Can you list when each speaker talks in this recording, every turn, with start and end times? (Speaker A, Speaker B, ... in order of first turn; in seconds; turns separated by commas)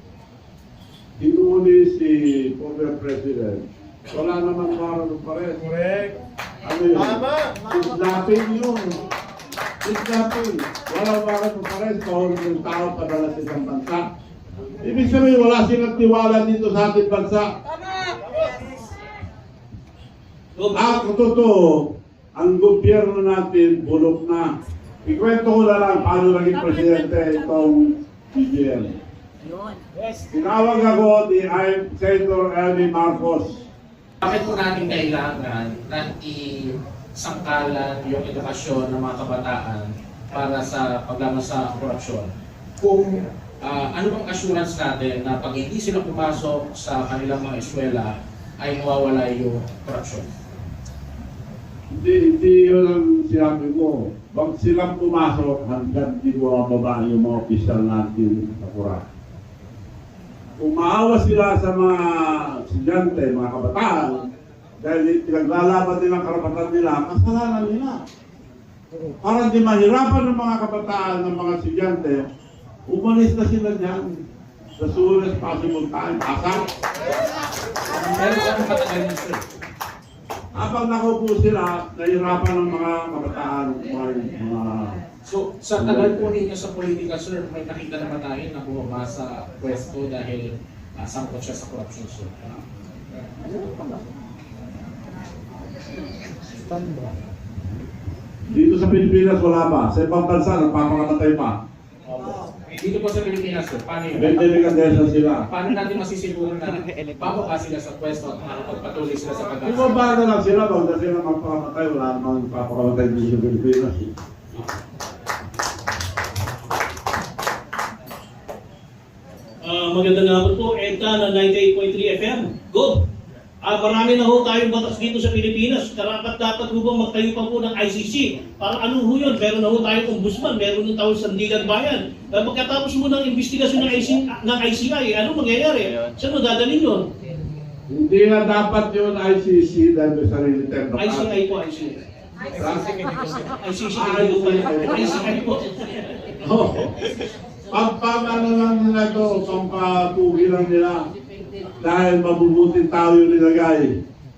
Speaker A: 1.2-5.6, Speaker A: 6.6-9.0, Speaker A: 9.8-14.1, Speaker A: 14.8-17.5, Speaker B: 20.5-21.0, Speaker A: 20.7-24.5, Speaker A: 25.0-29.0, Speaker A: 30.3-33.7, Speaker C: 34.2-42.3, Speaker C: 42.8-50.3, Speaker A: 51.9-59.0, Speaker A: 60.6-64.2, Speaker A: 64.8-68.0, Speaker A: 69.2-72.2, Speaker A: 72.9-74.2, Speaker A: 74.8-76.6, Speaker C: 77.9-79.4, Speaker A: 80.5-85.0, Speaker C: 85.2-92.3, Speaker A: 85.8-86.3, Speaker A: 98.5-101.6, Speaker C: 102.8-104.4, Speaker A: 104.1-105.5, Speaker C: 105.5-109.9, Speaker A: 109.6-114.1, Speaker B: 119.6-123.1, Speaker B: 123.6-137.1, Speaker A: 137.9-141.3, Speaker B: 140.9-142.0, Speaker A: 142.6-142.9, Speaker B: 143.6-146.3, Speaker A: 143.9-145.3, Speaker A: 146.4-146.9, Speaker A: 147.7-151.1, Speaker A: 151.8-154.0